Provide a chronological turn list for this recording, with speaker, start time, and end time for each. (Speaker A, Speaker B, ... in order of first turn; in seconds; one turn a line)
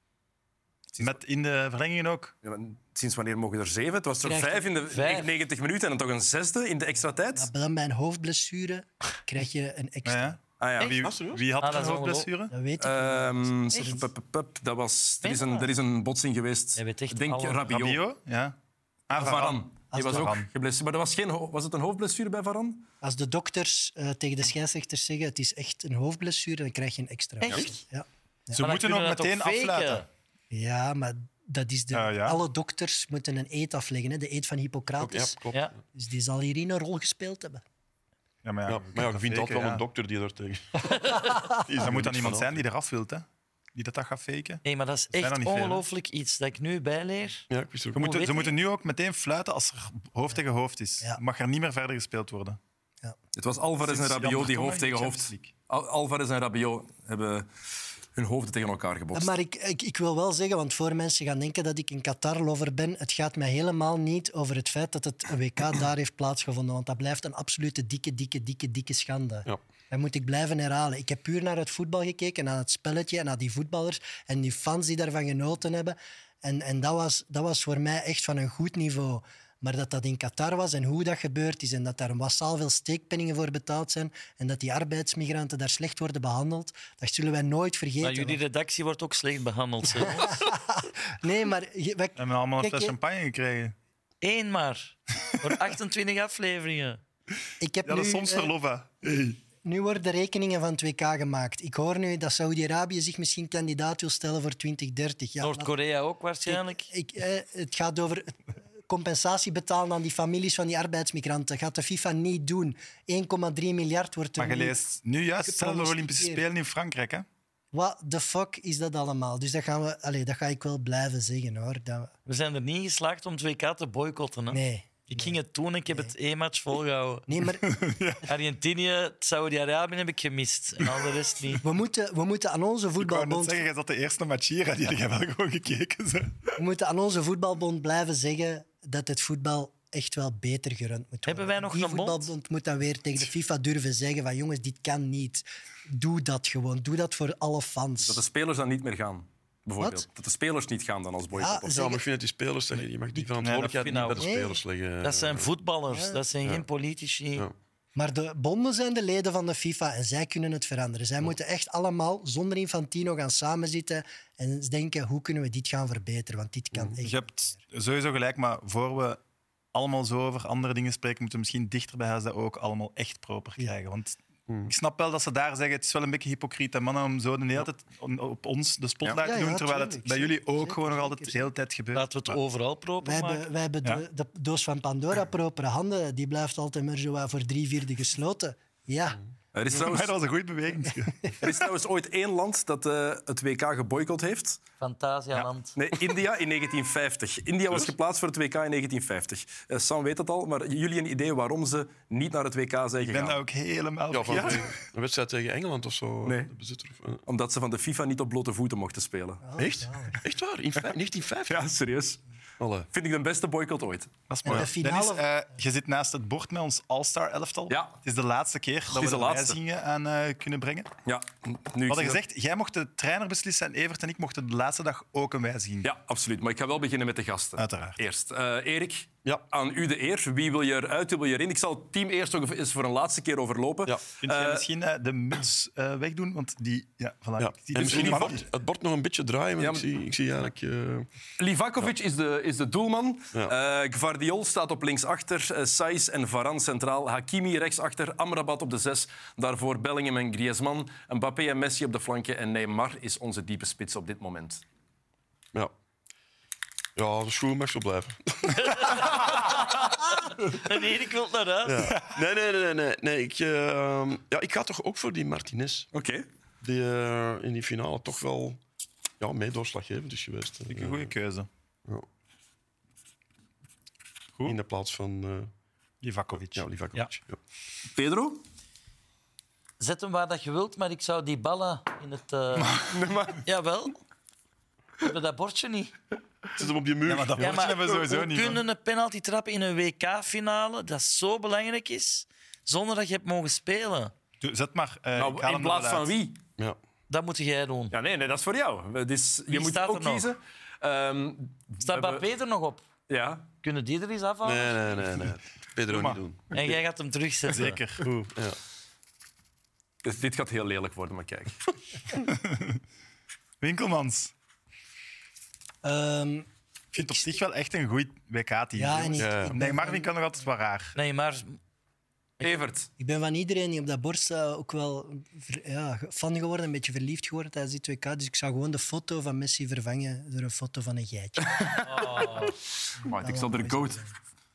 Speaker A: 1.0-2.3
Speaker B: 2.4-7.5
Speaker C: 4.2-4.7
Speaker D: 4.9-5.3
Speaker C: 7.3-10.4
Speaker A: 10.0-12.5
Speaker B: 10.6-11.0
Speaker E: 11.0-11.4
Speaker D: 11.6-12.3
Speaker C: 12.5-14.1
Speaker B: 12.8-18.0
Speaker D: 15.2-15.7
Speaker D: 16.8-17.6
Speaker A: 17.7-18.6
Speaker A: 19.1-20.5
Speaker B: 19.1-22.9
Speaker C: 19.9-20.3
Speaker C: 23.0-28.6
Speaker A: 28.5-30.0
Speaker D: 28.6-30.1
Speaker C: 30.5-35.4
Speaker A: 31.9-32.4
Speaker E: 35.0-35.8
Speaker C: 35.9-37.6
Speaker A: 38.4-39.8
Speaker E: 38.7-42.6
Speaker A: 41.8-45.8
Speaker D: 44.6-48.5
Speaker E: 47.5-48.0
Speaker A: 47.9-52.6
Speaker B: 53.3-57.5
Speaker A: 53.8-55.5
Speaker B: 58.1-59.3
Speaker C: 59.1-88.4
Speaker D: 88.0-90.3
Speaker C: 89.9-92.9
Speaker A: 92.2-93.7
Speaker D: 94.2-97.0
Speaker C: 97.6-98.5
Speaker A: 97.8-99.4
Speaker C: 99.6-105.7
Speaker D: 105.4-106.9
Speaker C: 106.5-114.8
Speaker A: 114.4-117.2
Speaker C: 115.4-116.4
Speaker C: 117.7-122.1
Speaker D: 122.3-127.2
Speaker C: 124.5-125.4
Speaker C: 127.3-127.8
Speaker A: 127.7-128.2
Speaker D: 128.2-131.6
Speaker C: 131.6-133.6
Speaker A: 133.0-136.5
Speaker C: 136.6-148.2
Speaker D: 141.2-142.3
Speaker B: 148.0-151.7
Speaker C: 151.4-152.0
Speaker E: 151.7-155.5
Speaker A: 153.4-154.1
Speaker D: 153.7-154.2
Speaker C: 154.2-154.6
Speaker D: 155.0-157.4
Speaker C: 155.9-156.2
Speaker C: 157.9-167.6
Speaker A: 167.0-169.2
Speaker A: 169.7-182.4
Speaker C: 179.2-181.4
Speaker D: 181.9-183.4
Speaker C: 183.0-189.2
Speaker B: 189.5-190.1
Speaker A: 189.7-191.3
Speaker B: 191.4-194.6
Speaker D: 194.8-195.8
Speaker B: 195.7-203.4
Speaker A: 203.1-204.8
Speaker E: 204.1-207.2
Speaker B: 206.2-206.5
Speaker B: 207.3-209.4
Speaker C: 209.4-210.2
Speaker E: 209.6-211.6
Speaker B: 211.5-212.2
Speaker E: 212.6-212.9
Speaker B: 212.9-214.1
Speaker A: 214.3-220.9
Speaker C: 214.4-215.2
Speaker B: 217.7-218.0
Speaker B: 218.9-219.6
Speaker B: 221.0-222.2
Speaker A: 221.9-225.9
Speaker B: 225.8-234.6
Speaker A: 227.6-228.0
Speaker A: 234.2-238.4
Speaker E: 237.4-241.1
Speaker B: 237.8-238.3
Speaker B: 239.6-239.8
Speaker B: 241.4-254.6
Speaker E: 256.9-259.2
Speaker D: 258.5-261.9
Speaker E: 261.6-265.9
Speaker B: 265.9-266.2
Speaker E: 266.6-268.6
Speaker E: 269.2-271.1
Speaker A: 270.7-271.5
Speaker E: 274.4-275.5
Speaker A: 276.0-276.7
Speaker E: 276.5-277.4
Speaker B: 277.9-278.4
Speaker D: 279.8-282.8
Speaker B: 282.9-283.4
Speaker D: 283.4-284.0
Speaker D: 285.0-285.9
Speaker E: 286.5-287.7
Speaker A: 287.1-288.6
Speaker D: 287.4-294.1
Speaker A: 294.4-296.1
Speaker B: 295.1-296.4
Speaker D: 297.1-297.9
Speaker B: 297.9-302.2
Speaker D: 299.5-300.3
Speaker D: 301.8-302.8
Speaker B: 303.1-303.5
Speaker D: 303.6-304.9
Speaker E: 304.4-306.8
Speaker A: 305.9-306.2
Speaker D: 306.5-307.8
Speaker A: 307.5-308.1
Speaker E: 308.0-308.6
Speaker B: 310.0-311.6
Speaker A: 312.2-312.8
Speaker A: 313.6-314.3
Speaker C: 315.8-317.3
Speaker A: 316.9-320.9
Speaker C: 318.8-320.1
Speaker E: 319.2-319.6
Speaker D: 320.9-321.6
Speaker B: 322.4-322.9
Speaker C: 323.0-332.0
Speaker B: 331.5-334.0
Speaker D: 331.8-332.5
Speaker C: 333.0-334.1